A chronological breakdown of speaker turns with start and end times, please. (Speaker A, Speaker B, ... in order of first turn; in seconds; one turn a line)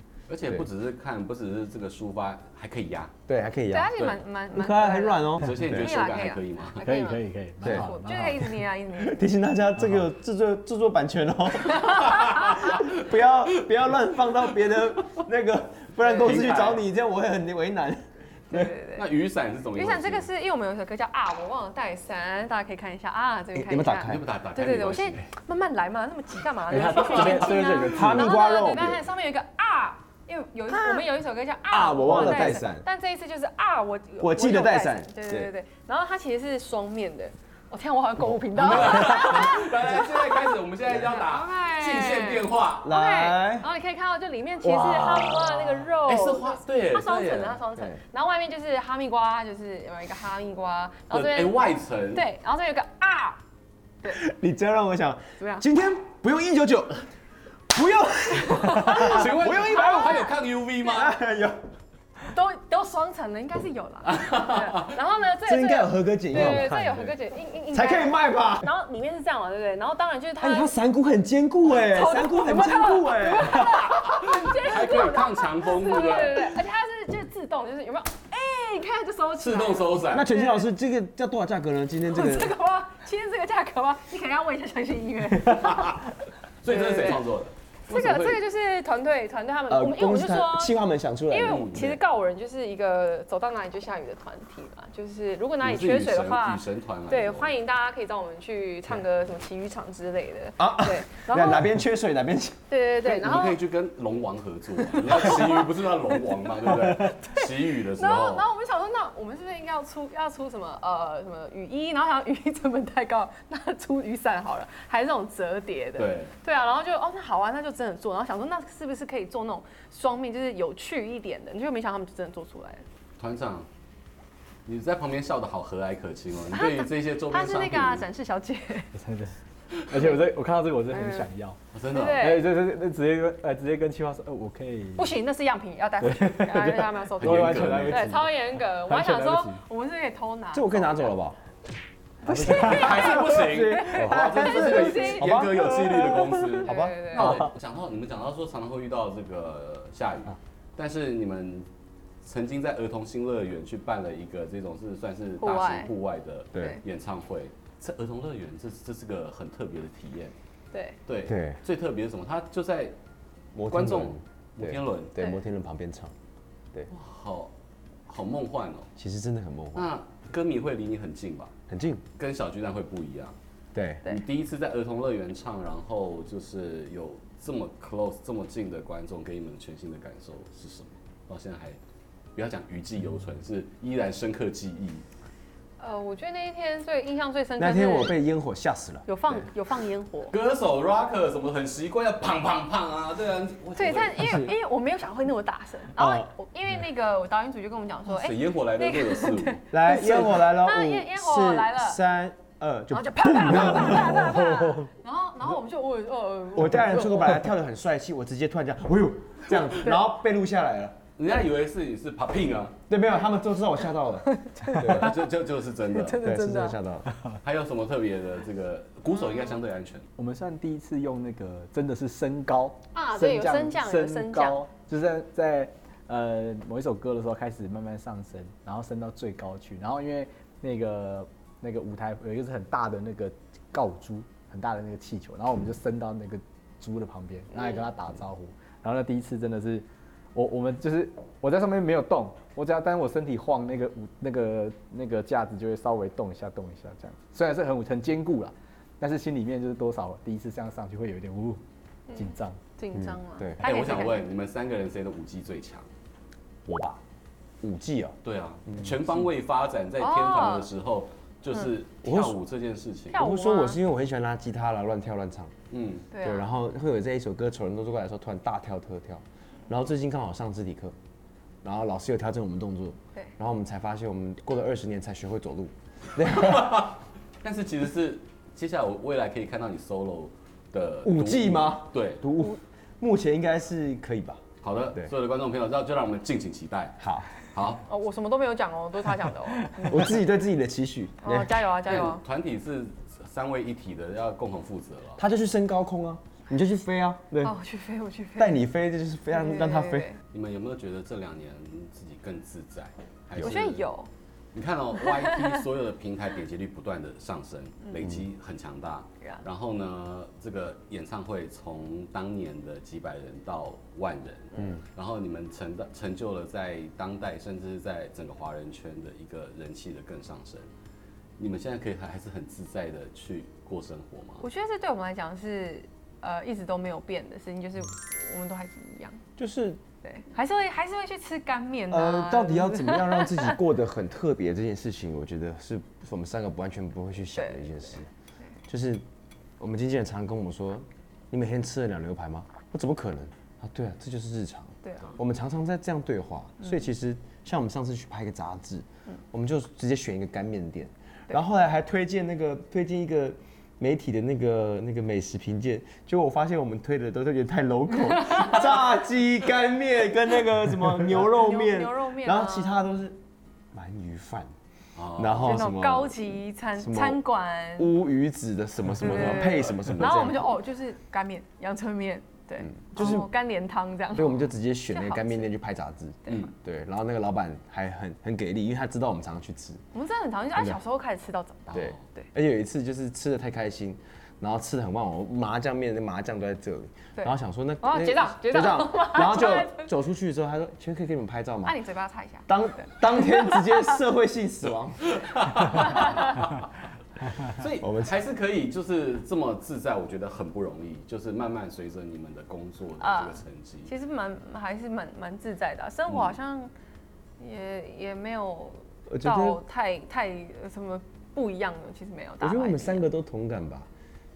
Speaker A: 0.3-3.1
Speaker B: 3.3-5.9
Speaker C: 3.7-9.2
Speaker A: 5.4-6.8
Speaker D: 6.8-8.6
Speaker B: 7.6-7.9
Speaker B: 8.9-18.7
Speaker C: 11.9-12.6
Speaker A: 16.1-16.8
Speaker C: 18.5-19.0
Speaker A: 18.9-20.3
Speaker C: 19.7-40.5
Speaker B: 23.5-24.3
Speaker A: 24.0-25.3
Speaker D: 26.7-28.3
Speaker A: 26.9-27.5
Speaker B: 27.9-29.0
Speaker B: 30.7-31.1
Speaker B: 31.7-32.9
Speaker B: 34.2-35.5
Speaker A: 38.5-42.9
Speaker C: 41.0-51.6
Speaker B: 42.8-43.7
Speaker B: 44.6-45.7
Speaker A: 45.9-47.6
Speaker B: 47.7-48.0
Speaker A: 51.1-52.2
Speaker C: 52.1-53.4
Speaker B: 54.1-57.1
Speaker C: 55.4-55.7
Speaker B: 57.7-60.2
Speaker C: 58.4-60.3
Speaker A: 58.8-61.1
Speaker B: 60.9-61.6
Speaker C: 62.3-70.7
Speaker A: 64.2-64.9
Speaker B: 65.4-67.1
Speaker B: 67.7-68.7
Speaker B: 70.4-73.8
Speaker C: 71.7-80.7
Speaker A: 74.0-76.5
Speaker A: 79.4-80.3
Speaker B: 80.1-82.5
Speaker C: 82.1-86.0
Speaker A: 85.6-86.0
Speaker A: 86.6-88.4
Speaker C: 86.7-87.2
Speaker C: 87.9-90.7
Speaker B: 89.7-92.0
Speaker C: 91.3-101.7
Speaker A: 91.4-91.8
Speaker A: 95.6-97.5
Speaker B: 100.6-102.6
Speaker C: 102.7-103.6
Speaker A: 103.0-108.5
Speaker C: 105.1-105.4
Speaker C: 107.2-122.8
Speaker A: 116.0-116.3
Speaker A: 123.2-123.7
Speaker A: 124.7-128.1
Speaker C: 126.5-128.9
Speaker D: 128.9-131.6
Speaker C: 130.9-131.3
Speaker A: 131.7-132.3
Speaker C: 131.9-132.5
Speaker D: 132.1-135.1
Speaker C: 134.9-141.1
Speaker D: 136.0-139.6
Speaker A: 137.2-138.1
Speaker B: 140.5-141.4
Speaker C: 142.2-145.4
Speaker D: 142.2-143.4
Speaker A: 142.3-151.7
Speaker B: 143.3-147.4
Speaker C: 146.6-147.4
Speaker D: 147.2-147.5
Speaker A: 152.2-160.3
Speaker C: 155.4-155.9
Speaker B: 156.5-156.8
Speaker C: 160.7-161.0
Speaker A: 161.1-162.9
Speaker B: 161.2-161.6
Speaker B: 163.5-166.1
Speaker A: 163.7-165.1
Speaker A: 166.9-167.5
Speaker A: 168.1-168.9
Speaker B: 169.0-169.9
Speaker A: 169.7-171.5
Speaker B: 171.7-172.0
Speaker A: 172.2-173.3
Speaker B: 173.7-174.0
Speaker A: 174.1-181.8
Speaker A: 182.3-185.0
Speaker C: 185.8-188.2
Speaker B: 187.6-189.1
Speaker C: 189.1-190.3
Speaker A: 190.3-194.4
Speaker C: 193.8-202.0
Speaker B: 194.2-194.5
Speaker B: 195.9-196.3
Speaker A: 198.1-200.2
Speaker B: 199.7-204.9
Speaker C: 202.9-207.5
Speaker B: 206.5-211.0
Speaker A: 211.2-212.8
Speaker B: 212.9-215.2
Speaker C: 214.3-215.0
Speaker A: 214.7-216.2
Speaker C: 215.9-216.8
Speaker B: 216.2-217.1
Speaker A: 217.4-220.1
Speaker D: 220.2-251.6
Speaker C: 222.9-224.6
Speaker C: 252.1-254.3
Speaker D: 252.2-252.6
Speaker B: 252.9-253.6
Speaker A: 253.6-255.9
Speaker B: 256.6-257.0
Speaker B: 257.6-258.1
Speaker A: 258.2-263.2
Speaker B: 258.7-258.9
Speaker C: 260.0-260.7
Speaker B: 262.0-262.4
Speaker C: 263.1-263.8
Speaker B: 263.1-265.5
Speaker A: 265.7-266.1
Speaker C: 266.1-266.5
Speaker B: 266.2-270.9
Speaker B: 271.6-276.9
Speaker A: 276.3-282.2
Speaker B: 281.0-284.4
Speaker A: 284.6-287.0
Speaker B: 287.0-287.3
Speaker A: 287.5-287.8
Speaker C: 287.9-290.2
Speaker B: 289.8-291.5
Speaker C: 291.2-292.2
Speaker A: 291.9-295.2
Speaker B: 295.2-297.5
Speaker C: 297.4-298.6
Speaker B: 298.4-300.1
Speaker C: 299.3-300.2
Speaker A: 300.3-303.8
Speaker C: 303.4-304.1
Speaker A: 304.5-320.7
Speaker A: 321.4-324.4
Speaker C: 324.4-329.2
Speaker B: 329.4-329.8
Speaker C: 330.0-333.6
Speaker B: 331.9-338.1
Speaker C: 337.3-337.7
Speaker B: 338.7-339.0
Speaker B: 339.6-363.2
Speaker C: 344.8-345.1
Speaker C: 361.2-362.8
Speaker B: 363.7-364.5
Speaker A: 364.9-365.5
Speaker B: 365.1-367.2
Speaker C: 365.4-367.9
Speaker B: 367.8-370.5
Speaker A: 369.0-370.3
Speaker C: 369.0-375.5
Speaker B: 372.7-373.3
Speaker B: 374.1-379.8
Speaker C: 379.9-382.3
Speaker A: 381.7-382.0
Speaker B: 381.7-391.8
Speaker C: 387.2-389.9
Speaker C: 391.6-393.9
Speaker B: 392.5-395.9
Speaker A: 395.1-396.6
Speaker C: 395.6-396.3
Speaker A: 397.4-403.9
Speaker B: 397.8-398.1
Speaker C: 403.0-406.7
Speaker C: 407.4-413.1
Speaker B: 409.1-409.6
Speaker B: 412.4-413.9